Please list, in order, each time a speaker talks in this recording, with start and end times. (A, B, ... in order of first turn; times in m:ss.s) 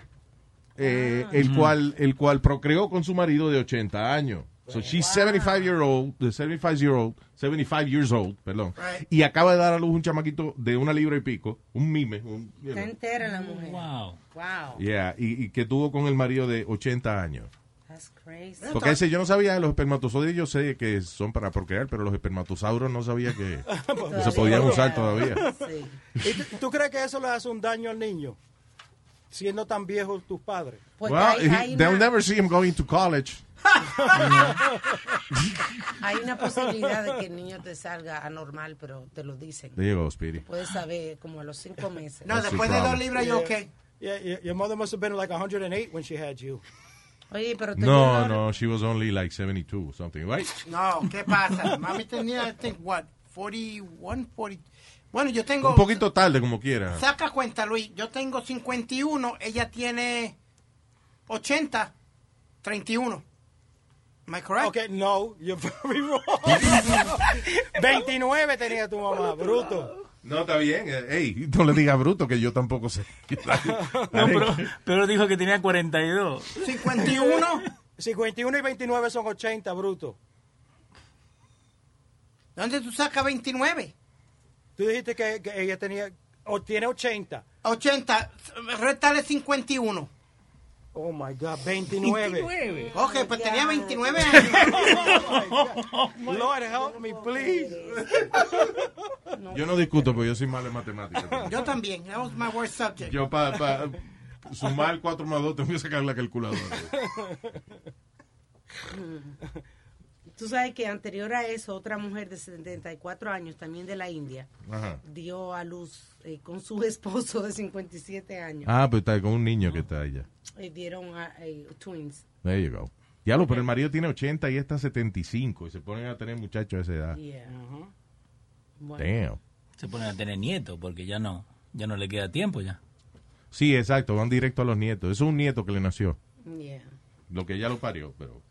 0:00.8-0:12.9 A
0:00.8-0:01.5 B
0:01.4-0:01.8 C
0:04.7-0:05.7 B
0:08.8-0:09.0 D
0:12.7-0:14.8 B
0:13.2-0:14.2 C
0:14.8-0:17.5 A
0:17.9-0:18.8 B
0:18.6-0:19.0 D
0:18.7-0:25.5 A
0:23.7-0:25.6 E
0:24.1-0:26.0 B
0:26.2-0:28.4 E
0:29.3-0:30.9 E
0:31.0-0:32.1 B
0:31.0-0:33.4 A
0:34.0-0:35.2 E
0:34.2-0:34.5 C
0:36.0-0:39.8 B
0:36.6-0:36.9 E
0:39.8-0:40.4 A
0:40.4-0:42.4 B
0:42.2-0:43.7 D
0:42.3-0:43.1 A
0:43.1-0:46.6 E
0:47.3-0:48.4 B
0:47.8-0:50.6 A
0:50.7-0:56.0 D
0:55.6-0:57.0 A
0:56.9-1:00.4 D
1:01.3-1:01.9 D
1:02.6-1:03.2 D
1:04.3-1:04.7 D
1:04.6-1:09.9 E
1:10.2-1:14.7 A
1:13.6-1:14.4 E
1:14.1-1:17.2 C
1:16.6-1:17.6 D
1:18.0-1:20.2 E
1:22.6-1:23.9 D
1:24.8-1:27.4 E
1:27.6-1:30.1 D
1:30.9-1:32.5 E
1:32.1-1:32.9 C
1:32.9-1:35.3 B
1:32.9-1:34.7 D
1:34.7-1:37.8 E
1:35.8-1:36.1 C
1:36.2-1:38.3 B
1:38.1-1:38.6 A
1:39.3-1:40.2 B
1:39.5-1:41.6 A
1:41.5-1:43.2 D
1:43.0-1:46.9 A
1:46.9-1:47.6 E
1:48.8-1:49.4 B
1:50.4-1:54.5 B
1:54.6-1:55.0 A
1:55.0-1:58.7 B
1:58.6-2:00.3 A
2:00.6-2:02.2 B
2:02.4-2:07.2 A
2:07.1-2:07.5 B
2:07.5-2:07.9 E
2:08.8-2:09.1 B
2:09.0-2:09.4 A
2:09.8-2:12.8 C
2:13.5-2:16.2 A
2:16.4-2:16.9 B
2:17.3-2:18.4 A